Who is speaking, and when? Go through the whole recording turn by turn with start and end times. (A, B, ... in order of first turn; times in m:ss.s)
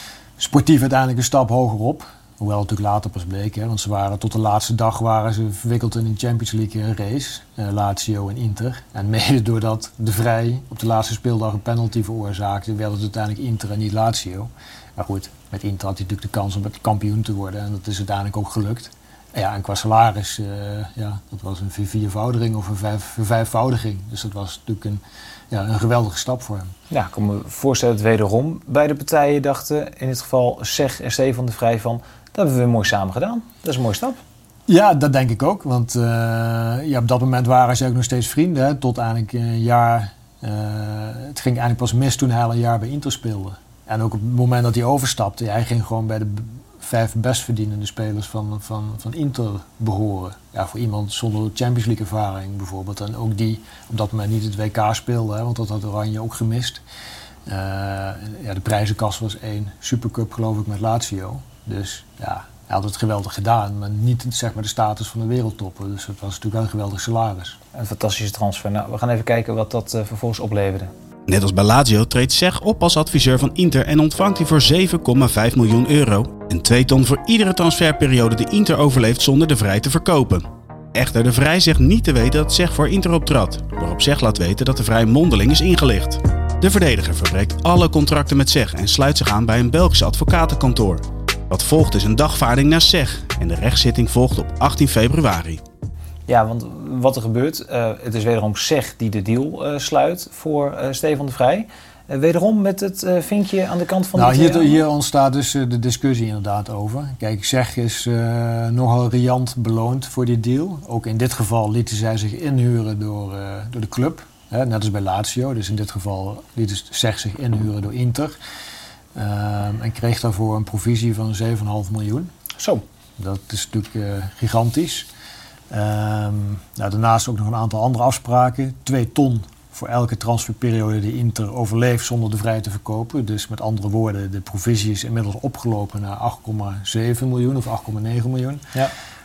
0:00.4-0:26.7 A
0:26.9-0:34.2 B
0:34.7-0:56.8 A
0:57.4-1:07.6 A
1:07.7-1:10.9 B
1:11.3-1:35.6 C
1:36.3-1:44.8 B
1:44.1-1:58.3 A
1:59.1-2:02.3 A
2:02.6-2:02.8 B
2:03.2-2:05.1 A
2:05.7-2:18.7 A